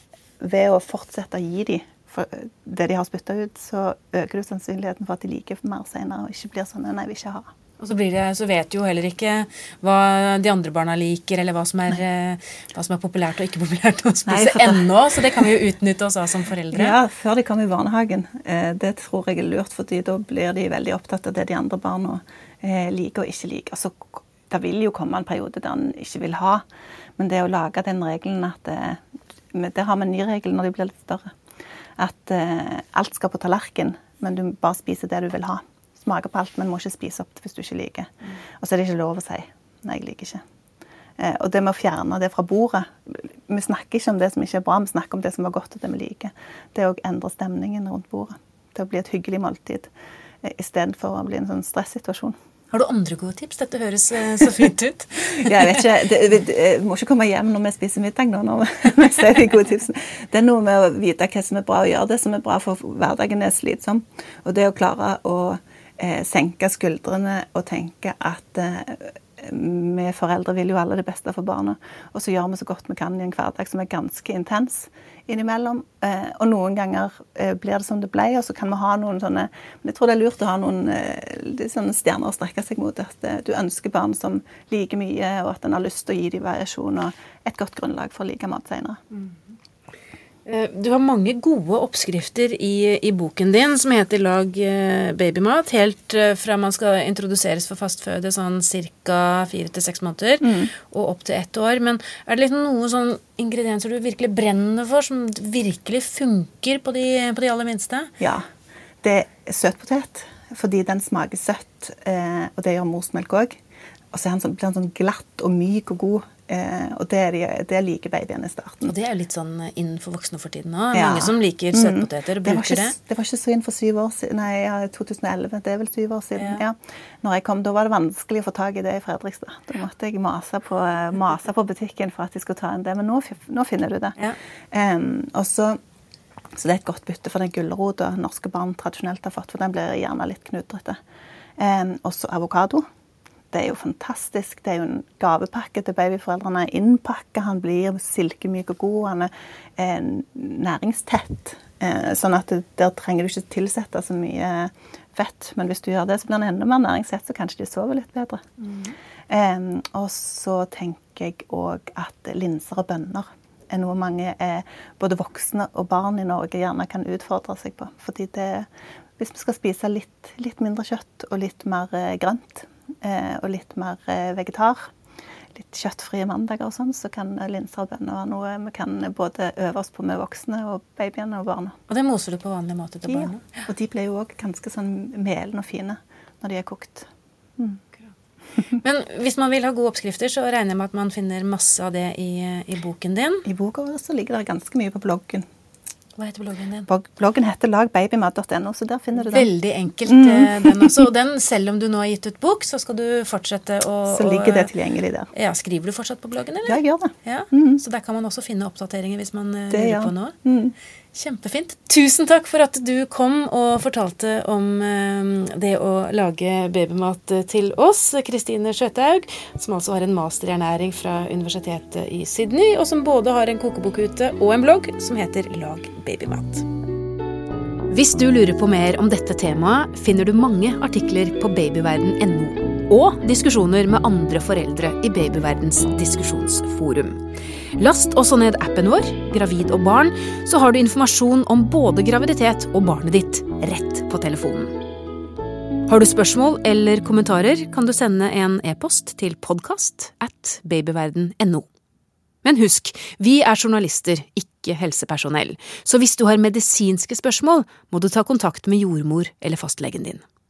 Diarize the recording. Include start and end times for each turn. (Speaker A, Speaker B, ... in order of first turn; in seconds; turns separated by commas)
Speaker A: 0.4-7.5, Speaker B: 7.8-16.9, Speaker A: 14.3-14.9, Speaker A: 16.7-26.6, Speaker A: 27.2-31.3, Speaker A: 32.0-40.4, Speaker A: 41.2-49.9, Speaker A: 50.4-52.4, Speaker B: 52.7-55.5, Speaker A: 55.4-89.0, Speaker B: 90.4-108.1, Speaker A: 100.4-100.7, Speaker A: 108.2-108.4, Speaker A: 109.0-113.6, Speaker A: 114.1-118.9, Speaker B: 118.8-122.9, Speaker A: 120.9-134.2, Speaker A: 134.7-135.8, Speaker A: 136.6-141.0, Speaker A: 141.6-142.8, Speaker A: 143.5-158.4, Speaker A: 159.3-174.8, Speaker A: 175.5-181.8, Speaker B: 181.9-183.4, Speaker A: 183.1-187.8, Speaker B: 188.8-193.4, Speaker A: 193.4-195.4, Speaker B: 196.2-196.9, Speaker A: 196.9-199.5, Speaker B: 199.2-204.7, Speaker A: 200.1-200.9, Speaker A: 204.1-205.3, Speaker B: 205.3-210.3, Speaker A: 206.6-207.8, Speaker A: 209.7-210.7, Speaker B: 211.1-226.7, Speaker B: 227.9-237.2, Speaker B: 237.8-244.7, Speaker B: 245.9-251.7, Speaker B: 252.4-260.2